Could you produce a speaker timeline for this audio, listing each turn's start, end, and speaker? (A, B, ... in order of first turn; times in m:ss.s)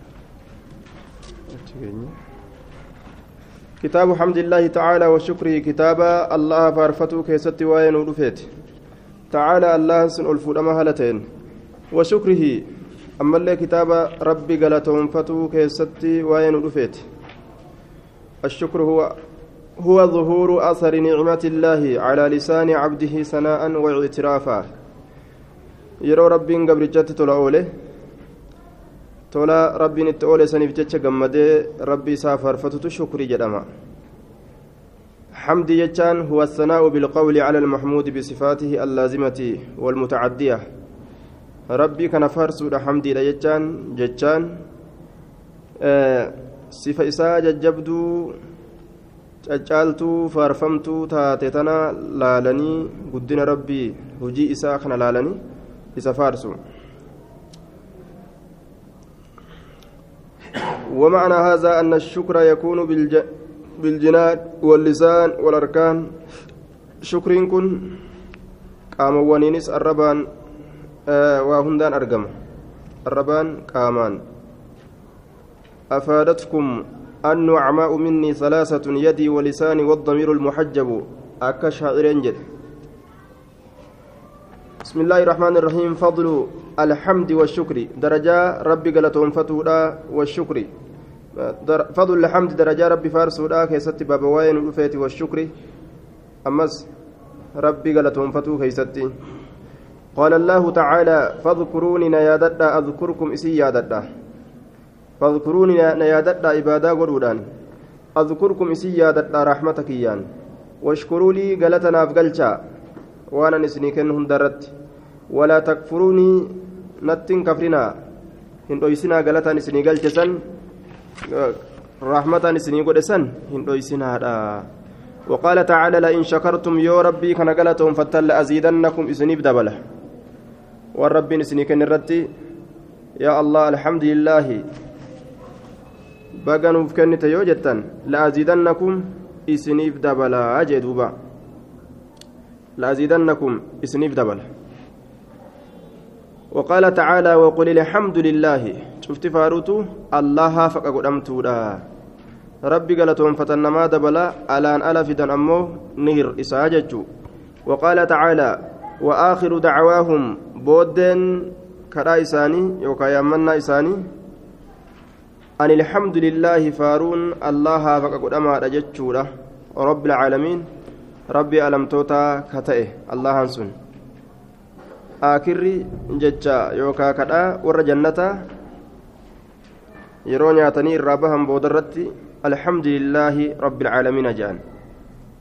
0:01.5-0:02.1 A
0:03.8-0:08.5 A
0:09.3-0:11.2 A
0:11.9-0:12.6 A
0:13.2-0:17.0 A
0:18.4-0:19.1 A
0:19.8-0:24.7 A
0:26.0-0:27.7 A
0:29.3-0:33.6 A
0:35.4-0:40.6 A
0:41.7-0:44.5 A
0:45.8-0:48.4 A
0:49.4-0:55.4 A
0:56.0-0:56.6 A
1:00.9-1:03.2 A
1:03.8-1:06.1 A
1:07.0-1:08.0 A
1:09.0-1:10.3 A
1:11.1-1:12.3 A
1:13.1-1:14.2 A
1:15.9-1:22.4 A
1:24.8-1:30.7 A
1:31.4-1:35.5 A
1:36.4-1:36.9 A
1:37.6-1:39.1 A
1:40.1-1:44.1 A
1:45.2-1:47.4 A
1:48.2-1:50.2 A
1:50.8-1:52.6 A
1:53.3-1:54.7 A
1:55.3-1:57.9 A
1:58.7-2:00.4 A
2:01.3-2:04.7 A
2:05.3-2:09.8 A
2:11.0-2:12.3 A
2:13.2-2:14.6 A
2:16.4-2:21.1 A
2:22.8-2:24.5 A
2:26.5-2:31.8 A
2:32.7-2:37.0 A
2:37.7-2:44.0 A
2:45.6-2:50.6 A
2:51.3-2:53.7 A
2:55.2-2:58.4 A
3:00.3-3:04.6 A